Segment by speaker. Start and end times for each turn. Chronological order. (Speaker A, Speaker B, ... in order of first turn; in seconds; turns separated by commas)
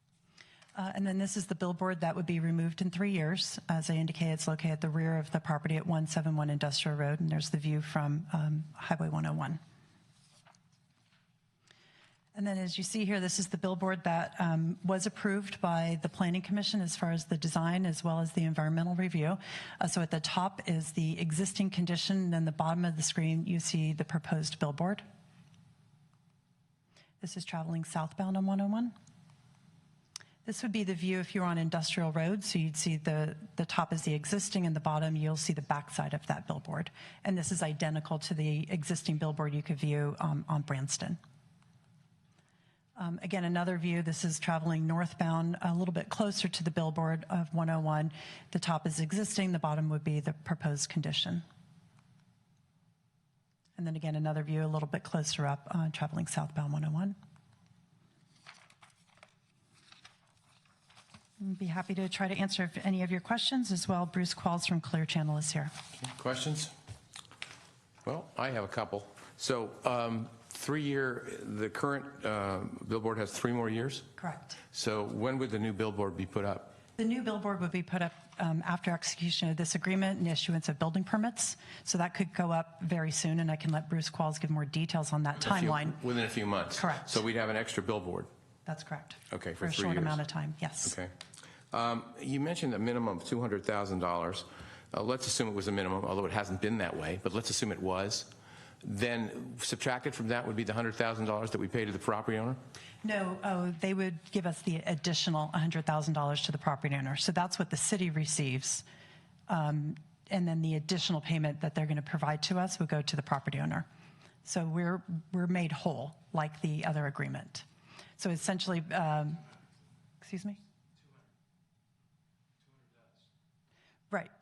Speaker A: 0.8-9.6, Speaker A: 12.3-25.0, Speaker A: 27.2-28.9, Speaker A: 30.4-41.2, Speaker A: 43.0-51.4, Speaker A: 53.8-57.2, Speaker A: 61.4-65.7, Speaker B: 66.0-66.7, Speaker B: 68.0-74.1, Speaker A: 74.2-74.6, Speaker B: 74.7-76.8, Speaker A: 77.0-86.0, Speaker B: 85.4-88.3, Speaker A: 86.7-87.2, Speaker A: 88.7-91.0, Speaker B: 89.3-90.2, Speaker B: 90.8-91.1, Speaker B: 91.7-98.3, Speaker B: 98.8-102.6, Speaker A: 103.0-108.8, Speaker A: 109.5-113.8, Speaker A: 114.4-117.7, Speaker A: 118.2-119.4, Speaker A: 120.2-120.6